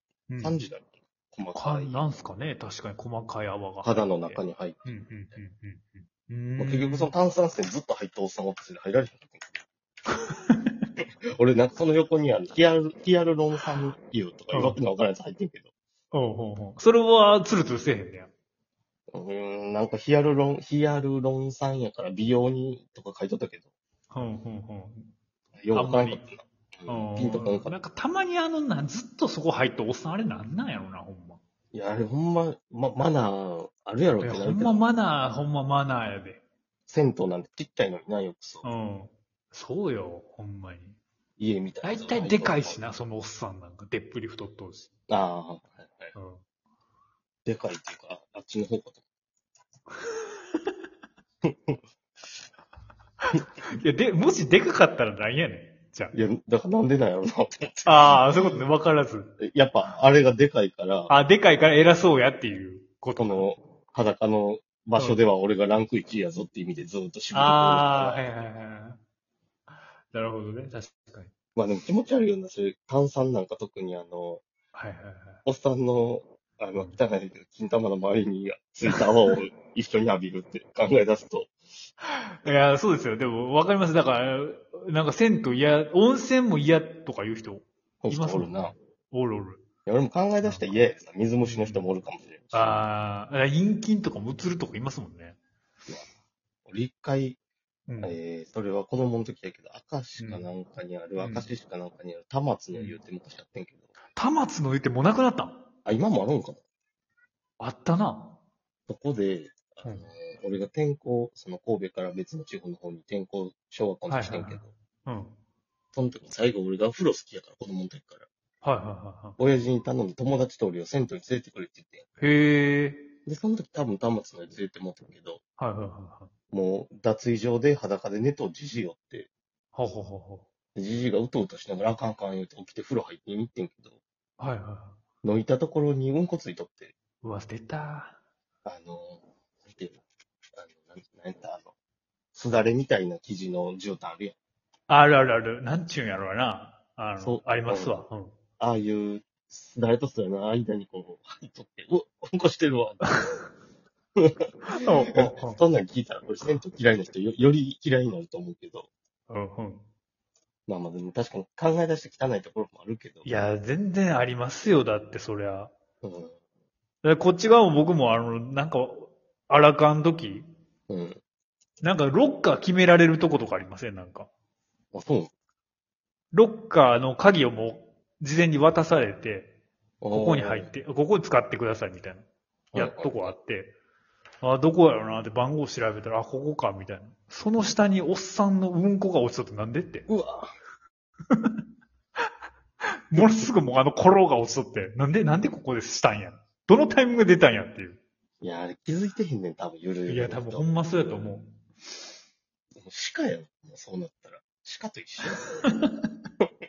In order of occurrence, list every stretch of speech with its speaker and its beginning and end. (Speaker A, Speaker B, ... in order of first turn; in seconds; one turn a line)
Speaker A: 0.3-0.6
Speaker B: 0.4-2.1
Speaker A: 1.5-7.1
Speaker B: 3.8-4.9
Speaker B: 6.6-9.6
Speaker A: 10.1-10.8
Speaker B: 11.4-15.7
Speaker A: 14.5-14.8
Speaker A: 16.1-18.3
Speaker B: 19.1-23.7
Speaker A: 24.1-25.1
Speaker B: 25.6-27.8
Speaker A: 25.7-26.2
Speaker A: 26.9-31.4
Speaker B: 31.7-34.8
Speaker A: 34.2-36.4
Speaker B: 36.9-38.7
Speaker A: 38.6-41.0
Speaker B: 41.4-42.8
Speaker A: 41.8-44.9
Speaker B: 45.1-46.1
Speaker A: 46.1-46.4
Speaker B: 47.4-49.0
Speaker A: 50.1-50.7
Speaker B: 51.4-51.8
Speaker A: 53.8-56.1
Speaker B: 56.1-58.7
Speaker A: 57.9-59.3
Speaker B: 59.4-61.1
Speaker A: 61.1-63.5
Speaker B: 63.1-68.3
Speaker A: 67.3-69.0
Speaker A: 70.1-71.3
Speaker B: 71.5-74.4
Speaker A: 74.7-75.4
Speaker B: 75.5-81.5
Speaker A: 78.8-79.4
Speaker A: 82.4-89.7
Speaker B: 88.0-88.7
Speaker B: 89.8-92.8
Speaker A: 90.4-90.8
Speaker A: 91.4-91.9
Speaker A: 92.5-95.4
Speaker B: 96.6-97.4
Speaker A: 97.9-98.2
Speaker B: 98.0-103.8
Speaker A: 100.2-100.5
Speaker A: 101.2-101.5
Speaker A: 102.7-103.0
Speaker A: 104.1-105.7
Speaker B: 105.8-106.6
Speaker A: 107.6-108.4
Speaker B: 108.9-114.7
Speaker A: 114.1-115.3
Speaker B: 115.9-118.2
Speaker A: 118.6-119.4
Speaker B: 119.4-122.0
Speaker A: 122.2-123.1
Speaker B: 123.2-125.4
Speaker A: 125.6-126.3
Speaker B: 126.5-129.3
Speaker A: 129.7-130.4
Speaker B: 130.7-134.0
Speaker A: 134.4-135.0
Speaker B: 135.2-136.9
Speaker A: 137.2-138.2
Speaker B: 138.6-140.0
Speaker B: 140.6-141.7
Speaker B: 142.3-144.3
Speaker A: 144.9-148.4
Speaker B: 147.2-148.1
Speaker B: 148.6-153.1
Speaker B: 154.2-158.9
Speaker A: 154.7-155.6
Speaker A: 159.3-159.8
Speaker B: 160.7-163.4
Speaker A: 163.2-165.7
Speaker B: 166.0-166.3
Speaker A: 167.0-170.5
Speaker B: 170.9-171.2
Speaker A: 171.8-174.3
Speaker B: 174.9-175.3
Speaker A: 176.3-179.5
Speaker B: 180.0-180.7
Speaker A: 180.1-182.2
Speaker B: 182.7-183.3
Speaker A: 182.7-183.7
Speaker A: 184.4-190.1
Speaker B: 190.1-190.5
Speaker A: 191.3-191.6
Speaker A: 193.1-198.0
Speaker B: 198.4-200.7
Speaker A: 200.1-201.5
Speaker B: 202.8-205.6
Speaker A: 205.4-206.1